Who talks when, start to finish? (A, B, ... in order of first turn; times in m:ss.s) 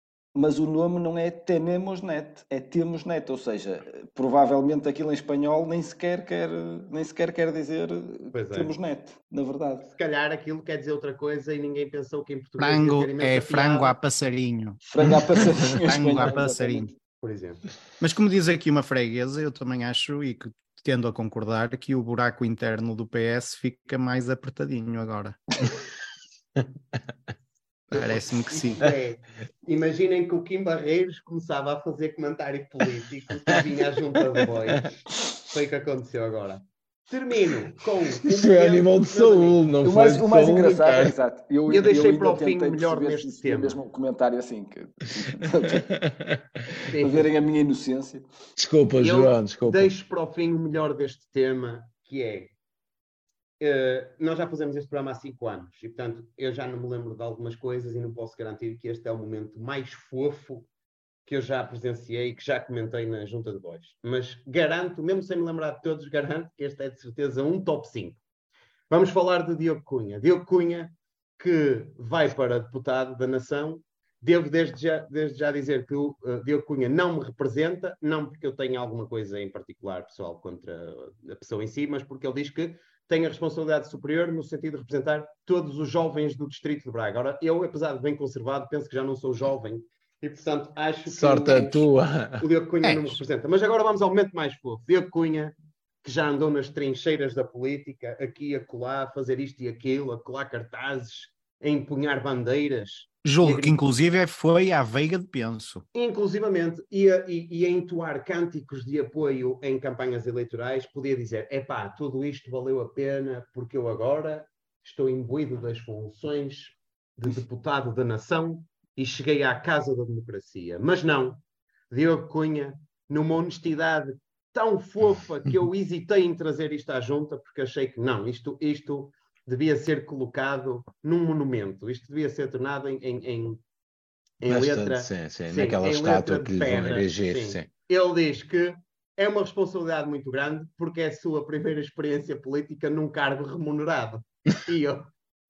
0:00.3-0:09.9 A
0:08.3-0:08.7 B
0:09.9-0:14.0 B
0:12.6-0:14.8 C
0:14.8-0:16.9 A
0:15.7-0:16.9 C
0:17.2-0:17.6 B
0:18.0-0:25.4 C
0:27.9-0:28.8 C
0:28.0-0:39.6 B
0:38.2-0:41.2 D
0:39.8-0:46.0 A
0:41.7-0:43.8 B
0:45.9-0:46.4 D
0:46.8-0:48.2 A
0:46.9-0:47.2 B
0:48.6-0:49.9 D
0:49.0-0:52.5 B
0:53.6-1:00.7 B
1:01.2-1:08.2 B
1:08.9-1:43.8 B
1:31.1-1:32.4 D
1:32.8-1:33.2 C
1:43.2-1:45.8 C
1:45.9-2:13.6 B
2:14.4-2:25.1 B
2:14.5-2:17.7 D